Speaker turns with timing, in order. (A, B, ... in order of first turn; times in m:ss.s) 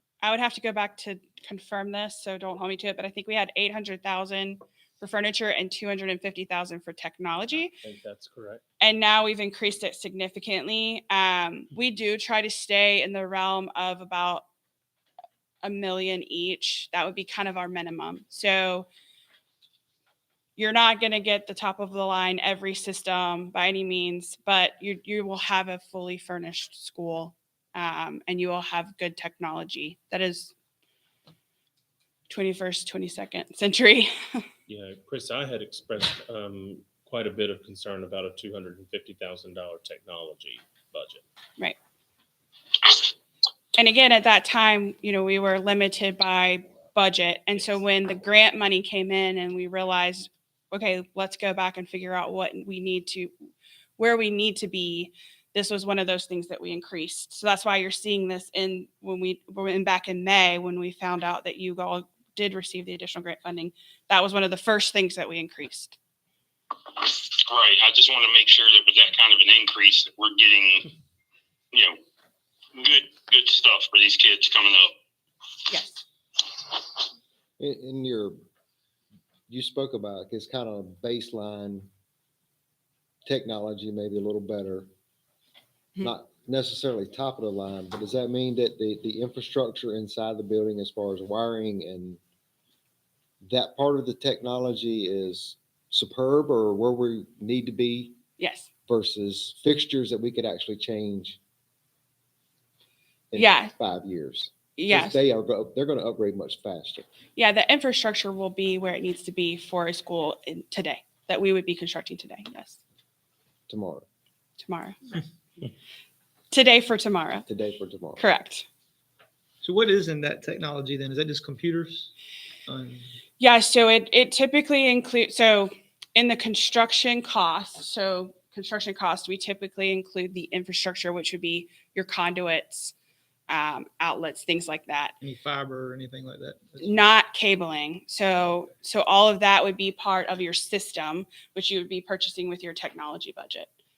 0:00.2-0:07.8 A
0:07.6-0:08.6 B
0:08.8-0:14.5 A
0:15.6-0:18.9 A
0:20.6-0:30.5 A
0:32.3-0:34.4 A
0:34.7-0:41.2 B
0:43.8-0:53.3 A
0:54.0-1:06.0 A
1:07.0-1:10.9 C
1:11.7-1:12.0 C
1:12.8-1:14.9 C
1:15.7-1:16.0 A
1:17.6-1:18.4 D
1:19.5-1:21.9 D
1:23.2-1:24.9 D
1:26.0-1:32.2 D
1:33.4-1:38.2 D
1:38.4-1:38.7 A
1:38.9-1:41.4 D
1:43.3-1:47.1 D
1:43.4-1:43.7 A
1:44.8-1:45.2 A
1:47.4-1:52.8 A
1:53.7-1:54.0 D
1:54.6-1:55.0 A
1:56.5-1:57.5 A
1:57.5-1:58.2 D
1:58.2-1:58.7 A
1:59.6-2:02.1 E
2:02.7-2:03.0 E
2:03.4-2:13.0 A
2:13.5-2:15.2 A
2:15.2-2:17.0 E
2:16.8-2:23.7 A